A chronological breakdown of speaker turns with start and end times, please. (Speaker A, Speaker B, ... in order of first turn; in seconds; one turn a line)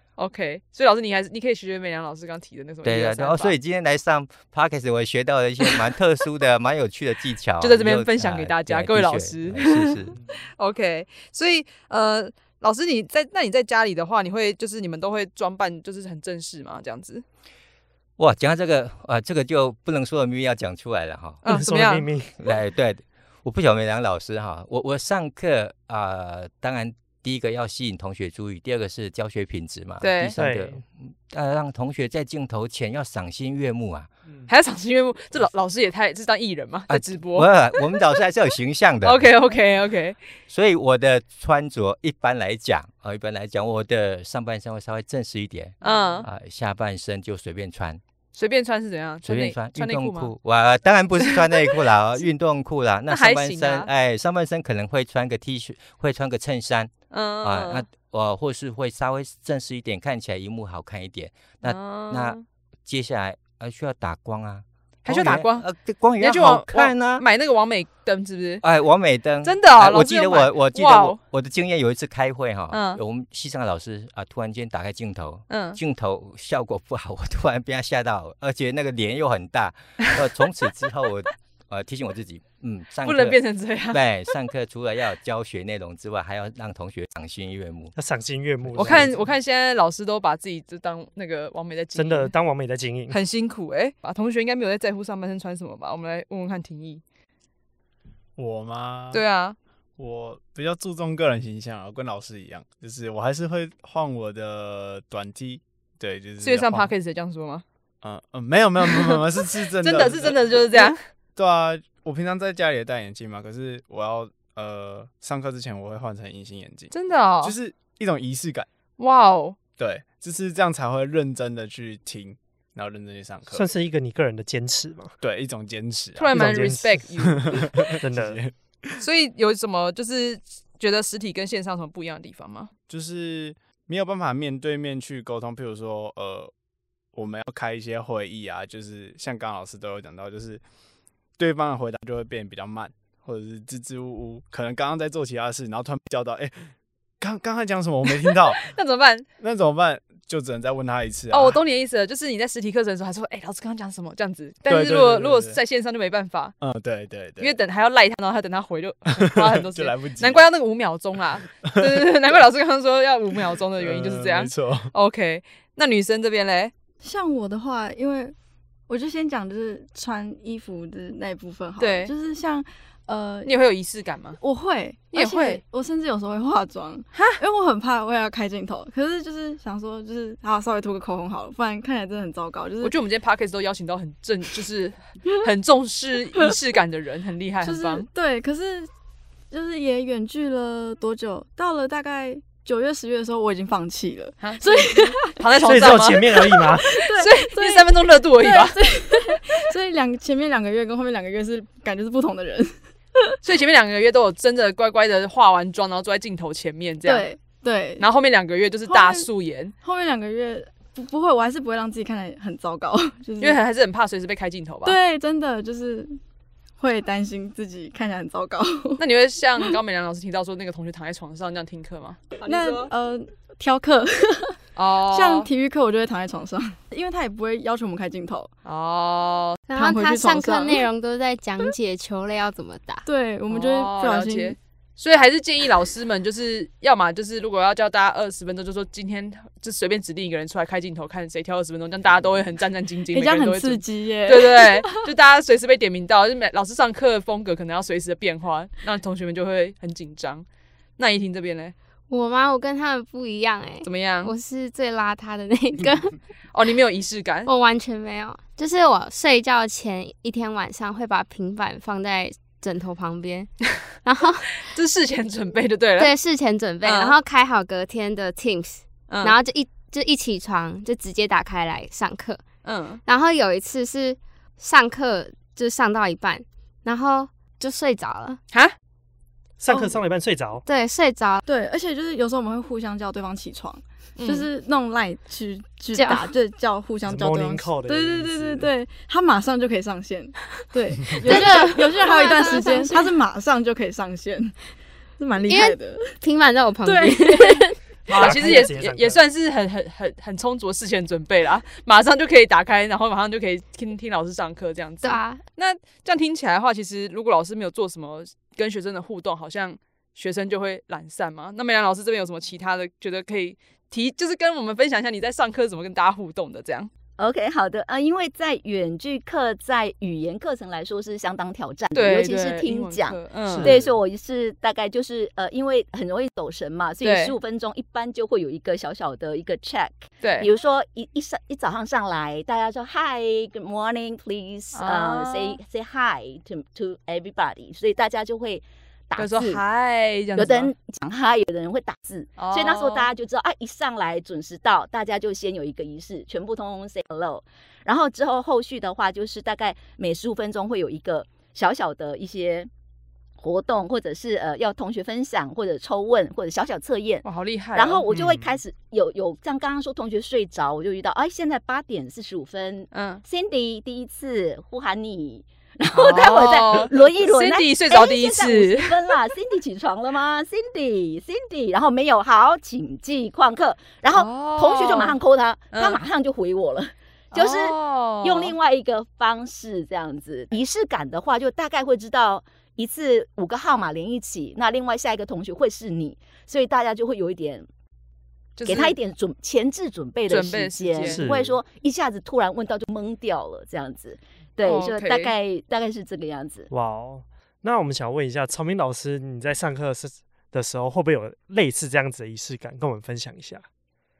Speaker A: 0.2-3.5
Speaker B: 2.8-10.2
Speaker A: 7.6-17.2
Speaker B: 18.2-21.4
Speaker A: 21.4-22.1
Speaker C: 21.4-22.3
Speaker B: 22.4-34.1
Speaker A: 30.0-30.3
Speaker C: 30.4-30.8
Speaker A: 34.5-38.0
Speaker B: 36.9-39.3
Speaker A: 39.0-40.2
Speaker B: 40.5-48.0
Speaker A: 45.8-46.3
Speaker A: 48.3-50.3
Speaker B: 49.2-67.2
Speaker A: 51.2-51.8
Speaker A: 53.1-53.9
Speaker A: 57.1-57.8
Speaker A: 61.6-62.4
Speaker A: 65.0-65.7
Speaker A: 66.2-68.6
Speaker B: 68.6-87.9
Speaker A: 69.4-71.2
Speaker A: 72.7-73.0
Speaker A: 75.5-75.8
Speaker A: 83.0-84.0
Speaker C: 87.9-89.3
Speaker B: 88.6-89.1
Speaker A: 88.7-92.3
Speaker C: 91.9-93.2
Speaker A: 93.1-97.0
Speaker D: 98.4-99.2
Speaker A: 99.1-99.5
Speaker D: 100.0-106.9
Speaker A: 106.4-107.6
Speaker D: 108.0-118.7
Speaker A: 108.8-109.2
Speaker A: 109.8-111.0
Speaker A: 116.9-117.5
Speaker A: 119.0-119.5
Speaker D: 119.8-123.7
Speaker C: 123.5-125.1
Speaker D: 125.2-129.0
Speaker A: 126.2-127.9
Speaker C: 126.3-127.4
Speaker C: 127.9-128.4
Speaker A: 129.0-132.7
Speaker D: 132.9-136.5
Speaker D: 137.1-140.6
Speaker D: 141.4-146.5
Speaker D: 147.2-148.6
Speaker A: 148.2-149.2
Speaker D: 149.4-151.6
Speaker A: 151.3-156.6
Speaker D: 154.7-155.6
Speaker D: 156.6-157.5
Speaker A: 157.4-166.7
Speaker D: 159.1-160.4
Speaker D: 161.6-162.1
Speaker D: 163.8-164.9
Speaker E: 167.0-168.3
Speaker E: 168.9-173.5
Speaker A: 171.8-172.1
Speaker A: 173.4-174.4
Speaker E: 174.4-182.9
Speaker A: 175.1-175.6
Speaker A: 177.1-177.4
Speaker A: 182.8-188.1
Speaker E: 187.6-188.9
Speaker E: 189.5-203.3
Speaker A: 194.4-198.8
Speaker C: 195.6-196.8
Speaker A: 203.4-207.3
Speaker E: 207.0-208.1
Speaker A: 208.0-209.7
Speaker E: 208.9-209.3
Speaker E: 209.8-213.6
Speaker A: 213.4-215.0
Speaker E: 214.8-216.2
Speaker E: 216.8-219.0
Speaker A: 219.0-222.3
Speaker E: 222.4-228.5
Speaker A: 224.8-225.5
Speaker A: 228.6-229.6
Speaker F: 229.7-233.0
Speaker E: 229.7-230.8
Speaker E: 233.0-234.6
Speaker A: 233.5-250.4
Speaker E: 243.1-245.1
Speaker A: 251.0-251.7
Speaker F: 252.1-256.1
Speaker A: 253.8-254.3
Speaker A: 256.5-257.5
Speaker F: 257.4-263.5
Speaker F: 264.0-264.7
Speaker A: 264.6-266.1
Speaker F: 266.0-272.4
Speaker A: 266.8-267.1
Speaker A: 269.1-269.4
Speaker A: 272.6-273.0
Speaker F: 273.1-278.4
Speaker C: 279.6-280.6
Speaker E: 279.7-280.0
Speaker F: 280.6-281.4
Speaker E: 281.4-294.6
Speaker A: 284.2-284.5
Speaker F: 285.9-286.3
Speaker C: 287.0-288.7
Speaker F: 291.2-293.1
Speaker E: 295.2-296.2
Speaker F: 295.5-297.7
Speaker E: 296.8-297.7
Speaker C: 298.1-299.2
Speaker A: 298.1-316.9
Speaker E: 298.2-298.6
Speaker F: 305.0-305.4
Speaker G: 317.2-339.6
Speaker A: 321.9-323.7
Speaker C: 323.5-323.9
Speaker A: 327.0-327.3
Speaker A: 330.2-330.5
Speaker A: 334.7-335.6
Speaker A: 339.2-340.7
Speaker G: 340.4-352.7
Speaker A: 342.4-343.1
Speaker G: 353.4-387.7
Speaker A: 357.2-358.0
Speaker C: 358.1-358.4
Speaker A: 362.9-363.2
Speaker A: 365.9-369.0
Speaker A: 374.1-375.1
Speaker A: 375.7-376.0
Speaker A: 377.3-378.5
Speaker A: 388.6-388.9
Speaker G: 388.6-396.7
Speaker A: 390.3-391.2
Speaker C: 391.0-391.6
Speaker A: 394.6-395.3
Speaker C: 396.7-403.6